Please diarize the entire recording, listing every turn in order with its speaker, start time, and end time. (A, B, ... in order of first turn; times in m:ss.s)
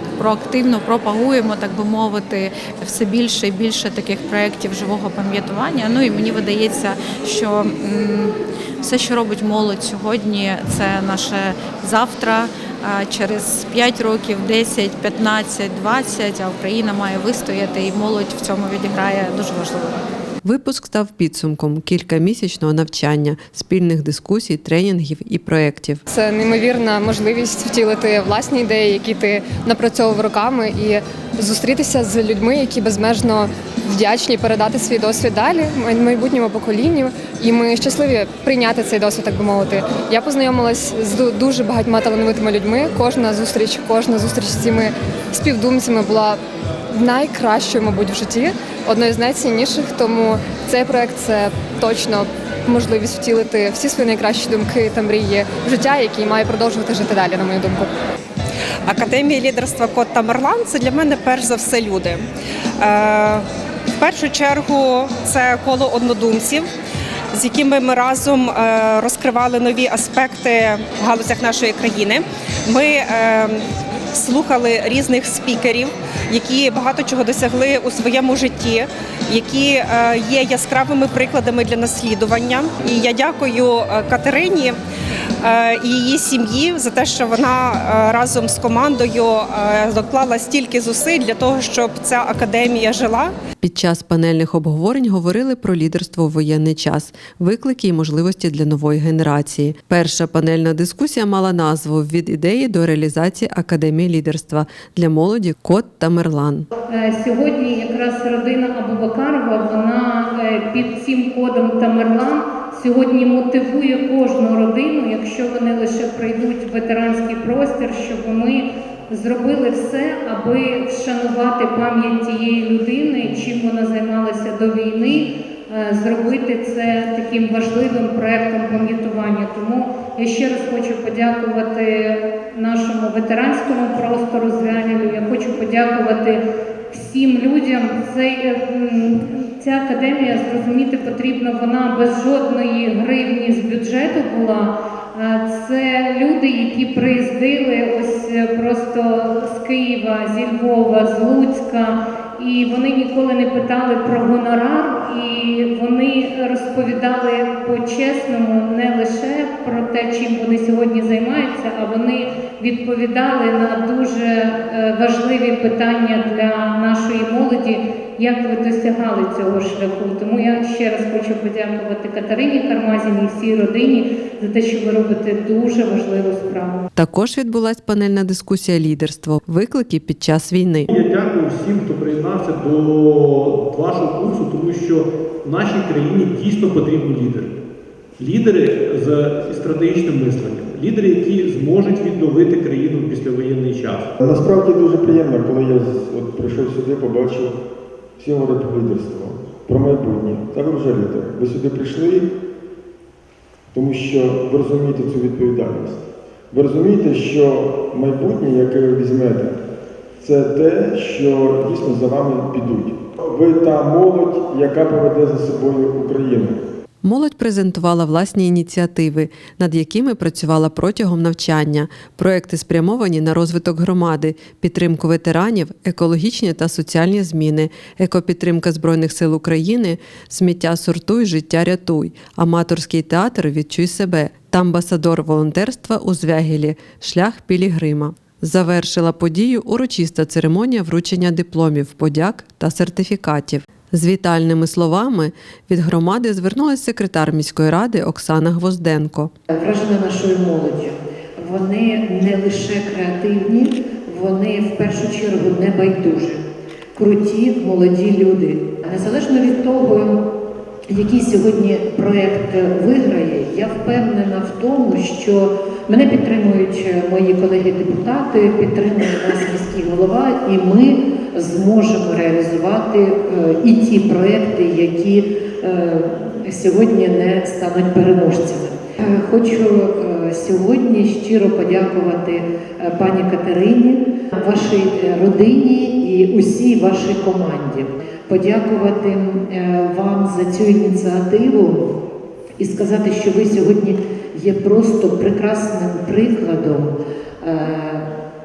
0:00.2-0:20.0 A
0:20.4-0:26.0 B
0:26.1-0:46.4 C
0:46.9-0:57.9 C
0:58.8-1:02.2 D
1:02.8-1:03.5 D
1:04.0-1:06.7 D
1:07.3-1:24.8 D
1:25.4-1:33.3 D
1:33.6-1:46.7 B
1:47.1-1:58.6 E
1:59.2-2:05.2 E
2:05.7-2:16.4 E
2:16.9-2:56.8 E
2:57.0-3:00.9 B
3:00.9-3:07.5 F
3:08.2-3:14.1 F
3:14.2-3:17.6 G
3:18.2-3:22.3 G
3:23.7-3:29.6 G
3:30.2-3:36.6 G
3:37.0-4:09.3 B
4:09.5-4:16.4 H
4:17.0-4:20.2 H
4:20.9-4:51.9 H
4:52.6-4:58.1 H